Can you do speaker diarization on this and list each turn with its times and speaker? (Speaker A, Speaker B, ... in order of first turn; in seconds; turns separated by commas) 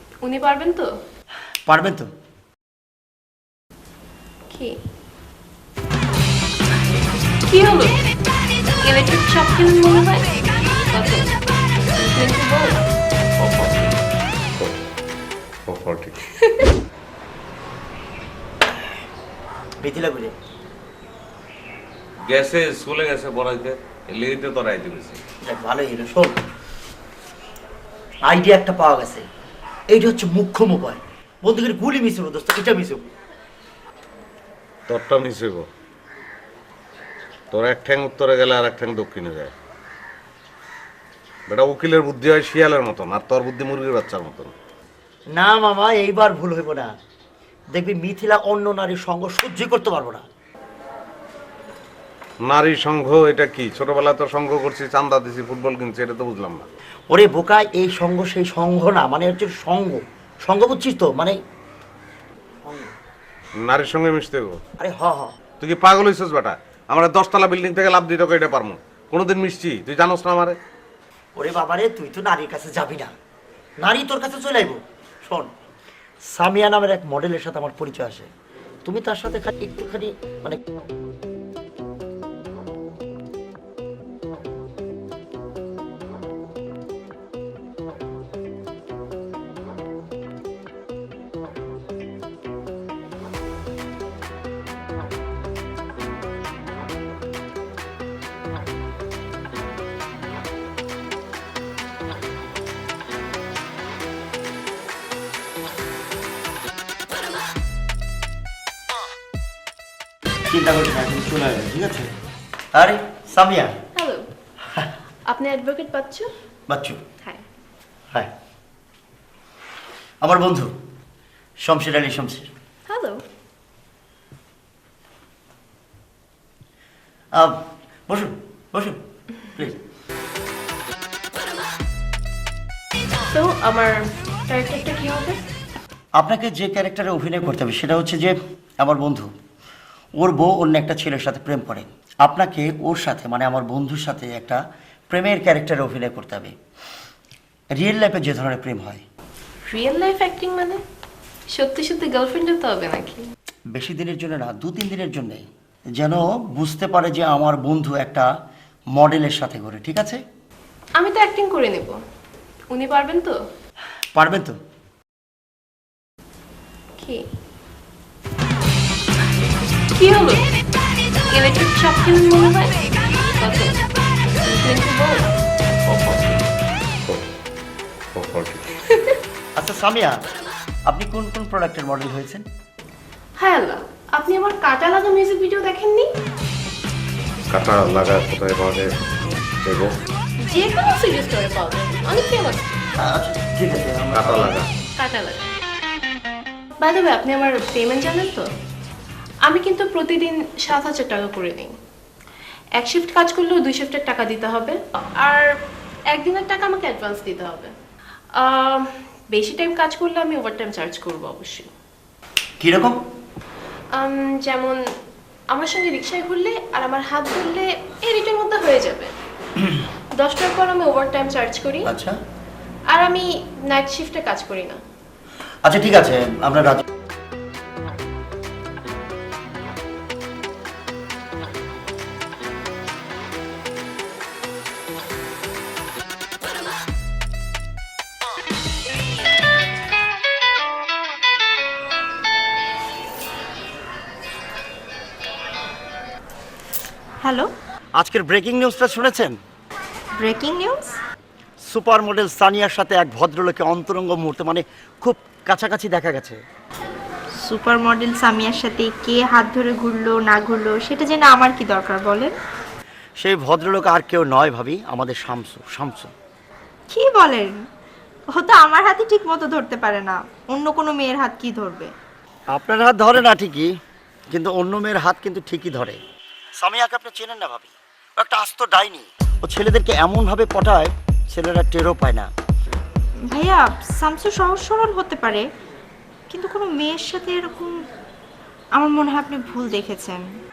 Speaker A: 0.2-0.9, Speaker B: 1.7-2.1, Speaker A: 4.5-4.8, Speaker A: 7.5-8.0, Speaker A: 8.8-10.3, Speaker A: 10.9-11.3, Speaker A: 12.0-12.8, Speaker C: 13.5-13.8, Speaker C: 15.7-16.2, Speaker A: 16.4-16.7, Speaker B: 19.8-20.3, Speaker C: 22.3-25.2, Speaker B: 25.4-26.3, Speaker B: 28.3-29.2, Speaker B: 29.9-33.0, Speaker C: 34.9-35.7, Speaker C: 37.5-39.5, Speaker C: 41.5-44.5, Speaker B: 45.4-46.9, Speaker B: 47.8-50.2, Speaker C: 52.5-56.7, Speaker B: 57.1-61.4, Speaker B: 62.6-62.9, Speaker C: 63.6-64.6, Speaker B: 64.8-65.3, Speaker C: 65.6-70.6, Speaker B: 71.4-73.1, Speaker B: 73.8-75.5, Speaker B: 76.3-78.3, Speaker B: 78.8-80.6, Speaker B: 110.5-112.1, Speaker B: 112.7-113.7, Speaker A: 114.0-114.3, Speaker A: 115.3-116.3, Speaker B: 116.7-117.0, Speaker B: 120.2-120.7, Speaker B: 121.7-122.5, Speaker A: 122.9-123.2, Speaker B: 127.4-129.0, Speaker A: 133.3-135.4, Speaker B: 136.2-139.3, Speaker B: 140.2-144.6, Speaker B: 145.1-146.5, Speaker B: 147.8-149.0, Speaker A: 149.7-150.8, Speaker A: 151.5-153.2, Speaker B: 153.8-155.4, Speaker B: 156.0-158.3, Speaker B: 159.0-160.2, Speaker A: 161.0-162.0, Speaker A: 162.7-163.4, Speaker B: 164.2-164.6, Speaker A: 167.0-167.2, Speaker A: 169.9-170.4, Speaker A: 171.3-172.8, Speaker A: 173.4-173.8, Speaker A: 174.4-175.3, Speaker C: 178.2-178.7, Speaker A: 178.9-179.2, Speaker B: 179.6-180.2, Speaker B: 180.9-182.4, Speaker A: 183.4-186.1, Speaker C: 187.5-189.9, Speaker A: 190.4-192.8, Speaker B: 193.0-194.6, Speaker C: 194.1-194.7, Speaker A: 195.0-195.5, Speaker A: 196.8-198.4, Speaker A: 199.4-201.7, Speaker A: 202.8-205.5, Speaker A: 206.1-207.7, Speaker A: 208.4-211.7, Speaker B: 212.6-213.0, Speaker A: 214.0-214.8, Speaker A: 215.5-219.1, Speaker A: 220.2-221.9, Speaker B: 221.9-222.2, Speaker A: 222.9-224.8, Speaker B: 225.7-226.8, Speaker D: 247.2-247.5, Speaker B: 248.0-249.4, Speaker D: 250.2-251.0, Speaker B: 251.7-256.4, Speaker D: 257.4-262.3, Speaker B: 263.2-266.1, Speaker D: 266.9-267.6, Speaker D: 268.3-271.9, Speaker B: 272.5-273.7, Speaker B: 274.3-276.0, Speaker B: 276.6-282.3, Speaker D: 283.3-285.4, Speaker D: 286.3-287.7, Speaker D: 288.8-290.3